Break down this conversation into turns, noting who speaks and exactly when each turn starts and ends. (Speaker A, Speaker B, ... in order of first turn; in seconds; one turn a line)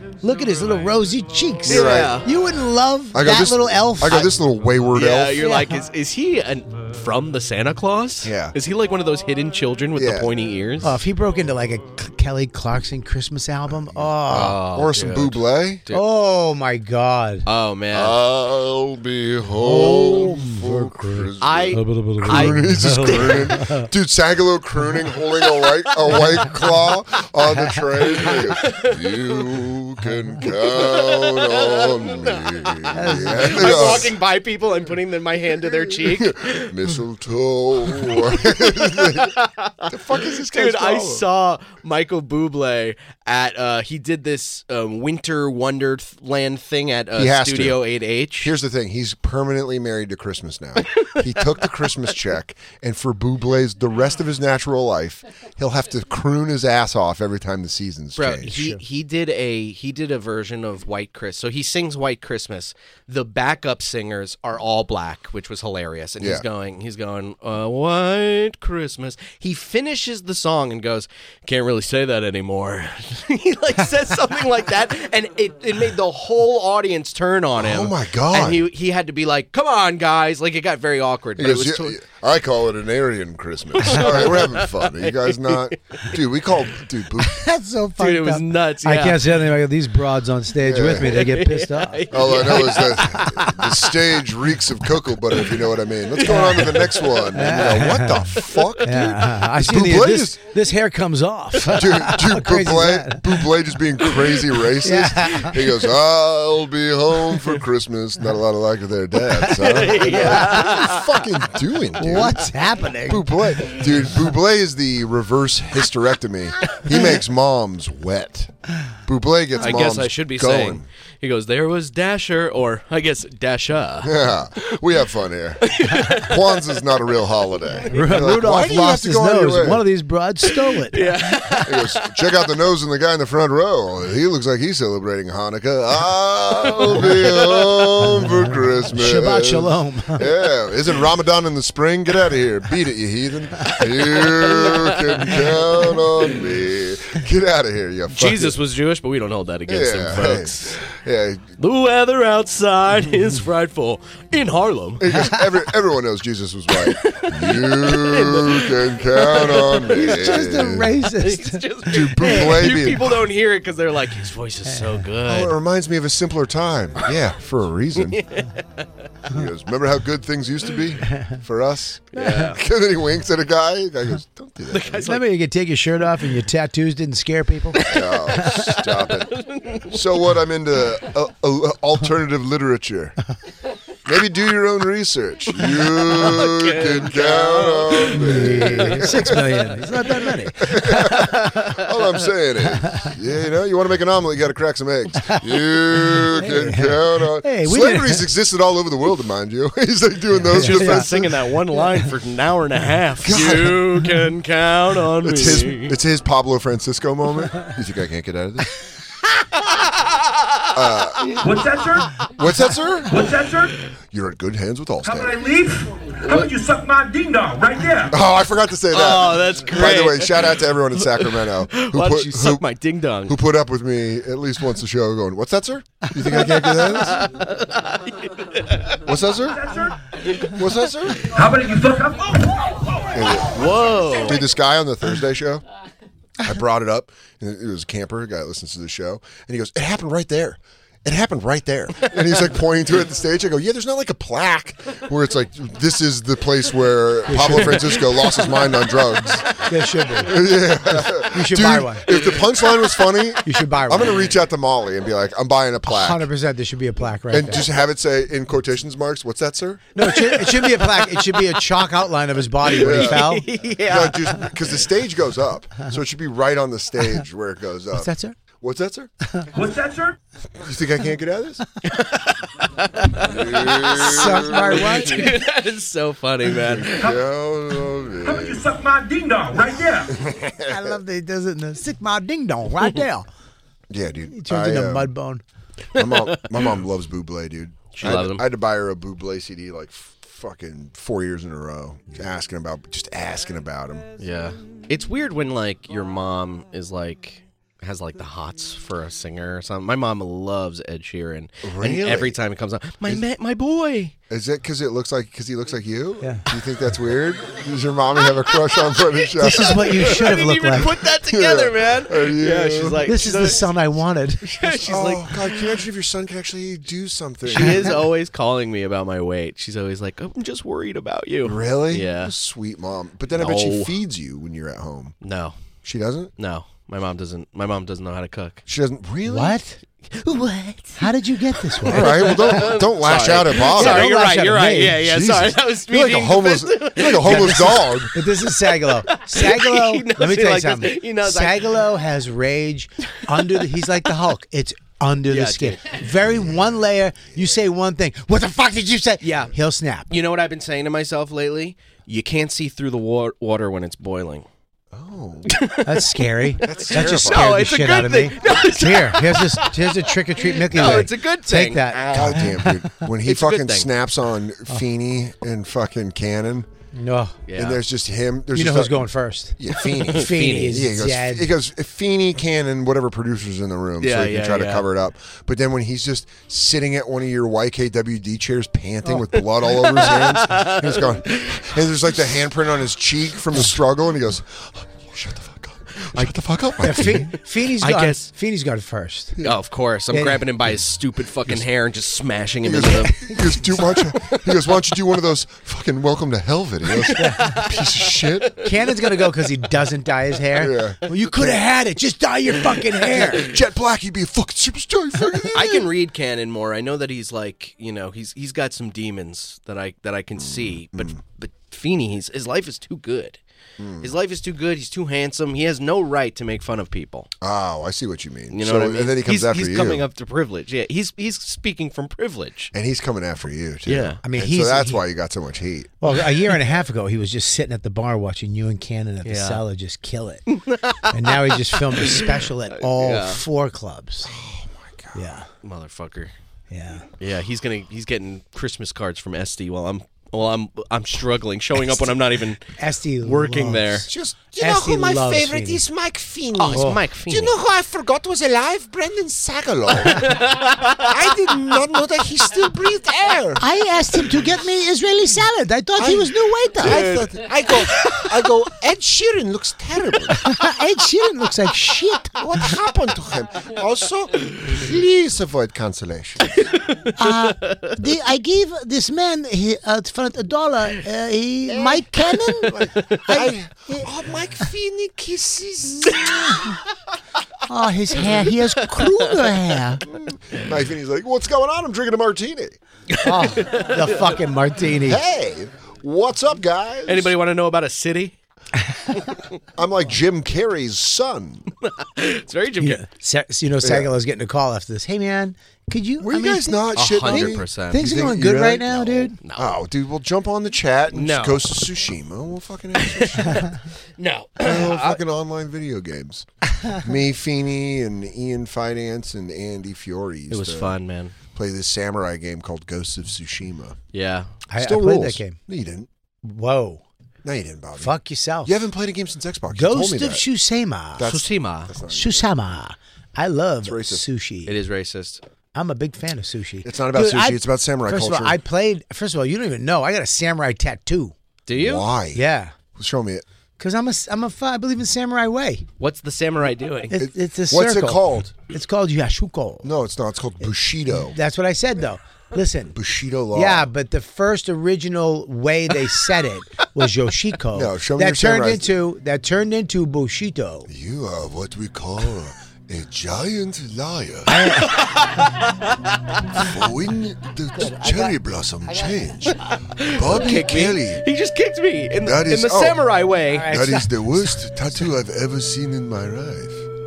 Speaker A: 0.2-4.3
Speaker B: 1.6-2.2
Speaker C: 1.7-2.2
Speaker B: 3.1-5.4
Speaker C: 4.9-11.0
Speaker A: 5.4-5.8
Speaker B: 8.2-8.6
Speaker B: 9.9-10.3
Speaker A: 10.8-14.6
Speaker B: 13.9-15.8
Speaker C: 14.3-16.0
Speaker A: 15.9-17.5
Speaker C: 17.5-18.2
Speaker B: 17.9-34.2
Speaker A: 19.6-23.9
Speaker C: 21.4-23.6
Speaker C: 25.4-26.5
Speaker C: 28.1-29.2
Speaker C: 30.4-36.8
Speaker A: 32.9-33.9
Speaker B: 35.6-39.4
Speaker C: 38.0-48.5
Speaker B: 39.9-41.2
Speaker B: 47.1-47.8
Speaker B: 48.4-58.7
Speaker C: 58.1-82.0
Speaker A: 58.5-58.8
Speaker B: 66.2-66.5
Speaker B: 77.6-78.7
Speaker B: 81.4-87.4
Speaker C: 83.8-85.7
Speaker A: 87.2-92.1
Speaker C: 88.0-89.4
Speaker B: 90.6-91.2
Speaker C: 91.0-93.7
Speaker B: 92.1-100.4
Speaker C: 95.3-95.6
Speaker C: 96.1-97.6
Speaker A: 96.3-96.6
Speaker A: 97.3-98.3
Speaker C: 98.5-99.1
Speaker A: 98.8-103.4
Speaker B: 101.7-118.5
Speaker A: 104.8-105.5
Speaker C: 109.5-111.1
Speaker A: 110.0-110.9
Speaker A: 112.0-113.7
Speaker B: 119.1-120.9
Speaker C: 119.6-124.3
Speaker B: 124.0-129.8
Speaker C: 125.6-126.6
Speaker A: 127.9-131.1
Speaker C: 130.9-132.5
Speaker B: 131.6-148.6
Speaker C: 136.6-137.8
Speaker A: 138.9-140.2
Speaker C: 143.8-145.9
Speaker C: 148.1-150.8
Speaker B: 149.7-151.5
Speaker C: 151.6-155.3
Speaker B: 155.0-161.0
Speaker C: 156.8-160.4
Speaker A: 159.9-161.6
Speaker C: 161.1-165.6
Speaker B: 161.9-163.2
Speaker A: 162.2-162.5
Speaker B: 165.2-168.2
Speaker C: 168.1-168.6
Speaker B: 169.3-175.1
Speaker C: 172.1-172.6
Speaker C: 174.7-175.2
Speaker A: 175.0-178.7
Speaker C: 177.8-180.0
Speaker B: 177.9-183.2
Speaker B: 184.1-189.7
Speaker C: 185.6-189.1
Speaker A: 188.1-190.8
Speaker B: 190.6-201.3
Speaker C: 190.9-192.1
Speaker A: 192.8-193.1
Speaker A: 195.2-198.2
Speaker C: 200.4-206.0
Speaker A: 200.5-201.1
Speaker B: 203.2-204.0
Speaker B: 205.2-208.7
Speaker C: 209.9-210.6
Speaker B: 210.7-211.4
Speaker D: 211.4-212.2
Speaker B: 212.4-213.1
Speaker D: 213.1-213.8
Speaker B: 214.1-215.4
Speaker D: 215.0-218.1
Speaker B: 218.1-222.7
Speaker C: 218.9-223.4
Speaker B: 223.2-227.3
Speaker C: 226.3-229.0
Speaker B: 229.0-229.7
Speaker D: 229.5-230.0
Speaker C: 230.3-230.8
Speaker B: 230.5-231.3
Speaker D: 231.3-233.1
Speaker B: 233.1-235.6
Speaker C: 233.5-234.4
Speaker B: 236.4-249.6
Speaker A: 247.3-247.9
Speaker C: 247.7-248.4
Speaker A: 249.6-250.4
Speaker B: 250.2-256.3
Speaker A: 251.0-252.2
Speaker A: 253.4-254.2
Speaker A: 255.9-257.6
Speaker B: 257.3-259.8
Speaker A: 259.9-263.5
Speaker C: 260.0-261.6
Speaker C: 262.6-264.5
Speaker B: 262.7-263.3
Speaker B: 263.8-269.1
Speaker A: 267.9-268.4
Speaker D: 269.5-270.2
Speaker B: 270.6-271.6
Speaker C: 271.9-277.1
Speaker B: 273.2-275.3
Speaker A: 274.0-275.4
Speaker B: 276.7-278.6
Speaker D: 278.2-280.1
Speaker B: 280.1-281.0
Speaker A: 280.7-283.3
Speaker B: 283.9-285.1
Speaker A: 284.3-285.4
Speaker B: 285.9-294.1
Speaker C: 286.0-286.4
Speaker C: 287.9-288.4
Speaker C: 294.2-304.1
Speaker B: 301.6-302.4
Speaker B: 304.3-310.4
Speaker C: 308.5-313.7
Speaker A: 309.4-310.9
Speaker B: 311.2-313.5
Speaker A: 313.1-314.6
Speaker C: 314.5-315.7
Speaker B: 314.8-318.0
Speaker C: 317.5-322.3
Speaker A: 317.5-318.0
Speaker B: 321.4-325.1
Speaker C: 323.3-324.0
Speaker C: 325.2-325.6
Speaker B: 325.8-326.3
Speaker C: 326.4-328.6
Speaker B: 328.6-329.6
Speaker A: 329.2-329.8
Speaker C: 330.1-331.0
Speaker A: 331.0-332.6
Speaker C: 331.8-338.1
Speaker B: 331.8-334.1
Speaker A: 333.7-335.0
Speaker B: 334.9-338.1
Speaker A: 337.2-350.1
Speaker C: 338.8-341.9
Speaker C: 345.3-346.0
Speaker B: 346.1-347.6
Speaker C: 349.2-349.5
Speaker C: 350.1-354.5
Speaker B: 354.9-355.6
Speaker C: 355.5-362.5
Speaker A: 355.9-363.0
Speaker B: 356.6-357.6
Speaker B: 362.0-366.7
Speaker C: 363.2-363.9
Speaker A: 366.9-367.4
Speaker C: 367.5-367.8
Speaker B: 367.5-387.3
Speaker A: 368.5-371.5
Speaker C: 369.8-370.8
Speaker C: 374.0-374.9
Speaker C: 379.4-382.2
Speaker C: 386.1-388.3
Speaker A: 386.8-389.4
Speaker C: 389.4-393.2
Speaker A: 390.1-390.4
Speaker B: 392.6-398.6
Speaker C: 397.0-398.5
Speaker A: 397.2-397.6
Speaker A: 398.6-403.5
Speaker B: 400.6-401.6
Speaker B: 403.3-405.9
Speaker C: 405.5-413.4
Speaker B: 410.4-411.2
Speaker B: 413.8-414.1
Speaker C: 414.0-417.3
Speaker B: 417.4-420.0
Speaker C: 418.5-422.7
Speaker B: 422.7-426.0
Speaker C: 423.9-424.2
Speaker A: 424.2-425.0
Speaker A: 426.0-430.4
Speaker C: 429.2-429.6
Speaker C: 430.5-433.4
Speaker A: 431.1-434.3
Speaker B: 434.2-435.2
Speaker A: 435.1-435.5
Speaker C: 435.6-436.3
Speaker A: 436.7-437.1
Speaker C: 437.2-444.1
Speaker A: 442.8-445.8
Speaker E: 444.1-450.3
Speaker C: 446.6-447.6
Speaker A: 446.7-447.0
Speaker C: 450.1-451.1
Speaker E: 451.1-453.6
Speaker A: 453.6-457.0
Speaker E: 456.0-456.2
Speaker B: 456.8-458.7
Speaker C: 456.8-458.6
Speaker E: 457.4-457.8
Speaker E: 458.4-460.2
Speaker A: 460.4-462.3
Speaker B: 462.4-466.6
Speaker C: 466.5-468.0
Speaker A: 467.2-474.1
Speaker B: 472.6-474.6
Speaker E: 474.2-476.0
Speaker C: 476.1-476.6
Speaker A: 476.5-476.8
Speaker A: 477.7-480.0
Speaker C: 478.9-479.4
Speaker B: 480.1-482.8
Speaker C: 483.1-484.4
Speaker A: 483.2-485.2
Speaker B: 485.0-487.3
Speaker C: 487.1-488.4
Speaker B: 489.8-491.7
Speaker C: 491.8-493.0
Speaker A: 492.8-499.4
Speaker B: 493.8-494.1
Speaker B: 496.2-503.7
Speaker C: 496.9-498.1
Speaker C: 499.4-499.8
Speaker C: 501.1-501.7
Speaker C: 503.0-505.2
Speaker B: 504.6-510.9
Speaker C: 510.5-511.4
Speaker B: 511.5-514.0
Speaker C: 514.1-514.5
Speaker A: 514.7-515.6
Speaker B: 514.8-516.1
Speaker A: 516.4-517.0
Speaker B: 517.4-520.4
Speaker A: 518.0-518.7
Speaker A: 519.7-521.3
Speaker B: 521.2-522.4
Speaker C: 521.2-521.9
Speaker A: 522.1-524.8
Speaker B: 523.8-524.3
Speaker C: 524.6-525.4
Speaker A: 525.8-531.4
Speaker B: 526.8-528.6
Speaker C: 531.7-532.1
Speaker B: 531.8-533.4
Speaker A: 532.4-532.7
Speaker A: 533.8-535.9
Speaker C: 536.0-537.1
Speaker A: 537.1-539.9
Speaker B: 537.1-538.5
Speaker B: 539.8-541.4
Speaker A: 541.3-543.0
Speaker B: 542.9-543.9
Speaker A: 543.5-550.9
Speaker B: 547.7-548.9
Speaker B: 550.9-554.6
Speaker A: 554.5-555.0
Speaker C: 554.8-556.4
Speaker B: 556.5-561.2
Speaker A: 558.0-558.3
Speaker C: 559.7-563.7
Speaker B: 562.2-563.0
Speaker A: 563.5-564.6
Speaker B: 563.6-566.9